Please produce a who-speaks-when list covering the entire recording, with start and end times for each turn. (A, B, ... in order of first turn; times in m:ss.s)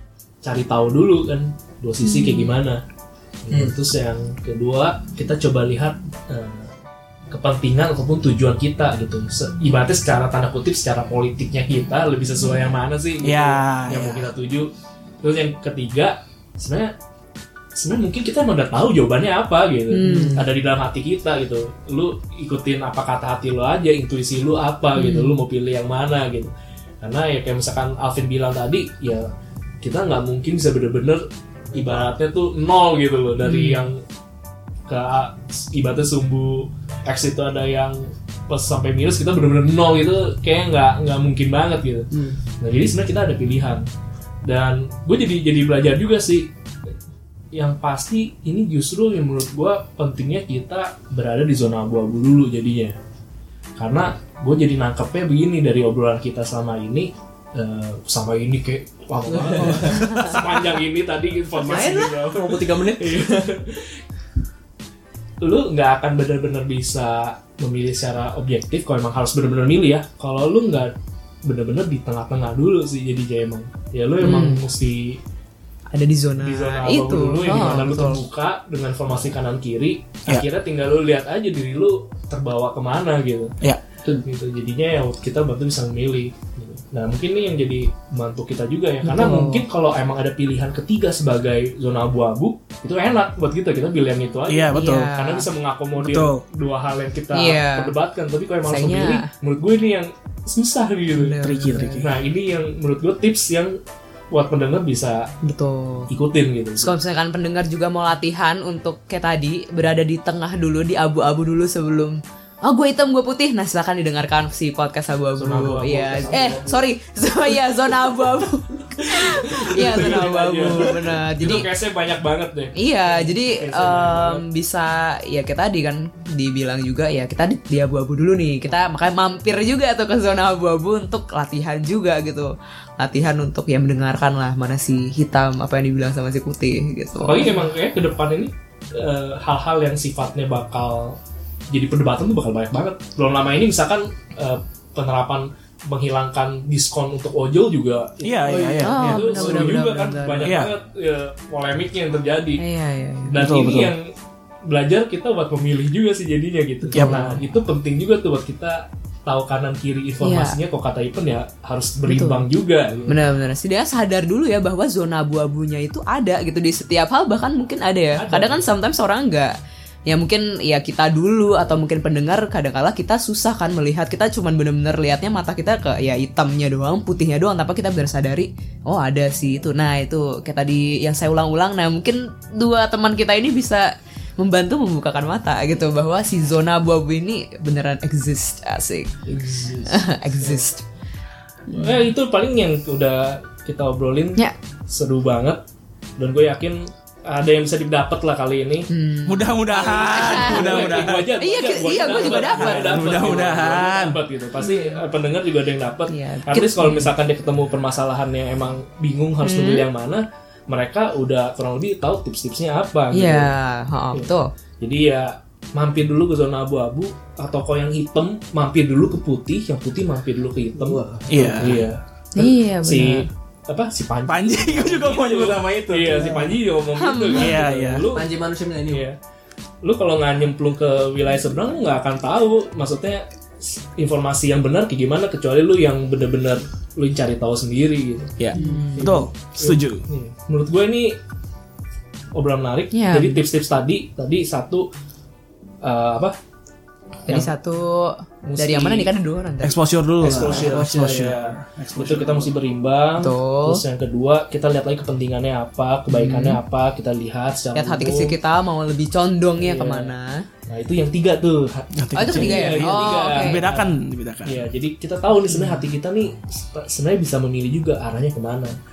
0:00.4-0:02.8 A
0:02.0-0:02.6 B
0:03.4-0:06.7 A
0:07.3-0:14.7 A
0:13.2-0:14.3 C
0:15.2-0:16.9 A
0:17.8-0:29.3 A
0:19.9-0:20.4 B
0:20.1-0:20.4 D
0:25.0-0:25.4 B
0:29.8-0:34.0 A
0:31.7-0:32.1 D
0:33.4-0:33.8 B
0:34.9-0:43.8 A
0:44.4-0:46.5 A
0:47.5-0:53.0 A
0:53.8-1:04.0 A
0:59.3-1:00.4 D
0:59.9-1:00.4 B
1:01.6-1:03.5 D
1:05.4-1:10.9 A
1:11.4-1:15.2 A
1:14.2-1:14.6 B
1:15.9-1:18.2 B
1:16.4-1:23.6 A
1:24.2-1:41.4 A
1:29.0-1:29.6 B
1:34.5-1:35.1 C
1:34.7-1:35.5 B
1:36.0-1:36.4 C
1:37.3-1:37.9 B
1:38.7-1:39.3 B
1:41.1-1:42.1 B
1:41.4-1:42.1 C
1:42.0-1:43.8 A
1:44.3-1:45.3 A
1:45.4-1:46.1 B
1:46.1-1:46.9 A
1:46.8-2:01.7 B
1:55.4-1:56.9 A
1:59.0-2:04.4 A
2:02.8-2:17.6 B
2:17.2-2:21.2 A
2:21.7-2:32.6 A
2:28.2-2:29.7 C
2:28.7-2:30.6 B
2:30.4-2:30.7 C
2:32.6-2:33.4 B
2:33.3-2:34.1 A
2:33.3-2:33.9 C
2:34.7-2:43.2 A
2:36.9-2:37.4 B
2:36.9-2:37.3 C
2:40.2-2:40.6 B
2:42.1-2:42.4 B
2:43.1-2:49.5 B
2:48.2-2:48.7 A
2:50.1-3:09.2 B
3:09.3-3:10.6 A
3:09.9-3:10.8 B
3:11.7-3:12.1 B
3:11.7-3:15.6 A
3:16.2-3:18.9 A
3:18.9-3:23.4 B
3:19.3-3:21.3 C
3:20.0-3:33.5 A
3:22.2-3:24.2 C
3:24.6-3:25.0 B
3:26.1-3:27.1 B
3:29.4-3:29.9 B
3:33.1-3:34.5 B
3:34.8-3:48.3 A
3:40.8-3:41.5 D
3:41.3-3:41.9 C
3:42.4-3:43.3 B
3:44.3-3:46.6 C
3:47.0-3:47.5 B
3:47.3-3:48.1 C
3:48.1-3:49.0 D
3:48.9-3:49.2 A
3:49.8-4:01.2 A
3:58.4-4:00.0 C
3:58.5-3:59.2 B
4:02.4-4:04.9 A
4:02.9-4:03.4 B
4:05.8-4:06.4 A
4:07.3-4:09.8 B
4:08.5-4:09.1 A
4:09.6-4:12.5 C
4:10.2-4:18.4 A
4:10.3-4:11.4 D
4:13.2-4:13.8 B
4:16.1-4:16.6 B
4:17.8-4:20.4 B
4:19.6-4:20.2 A
4:20.7-4:28.8 A
4:22.0-4:24.6 C
4:22.2-4:23.6 B
4:25.5-4:25.9 B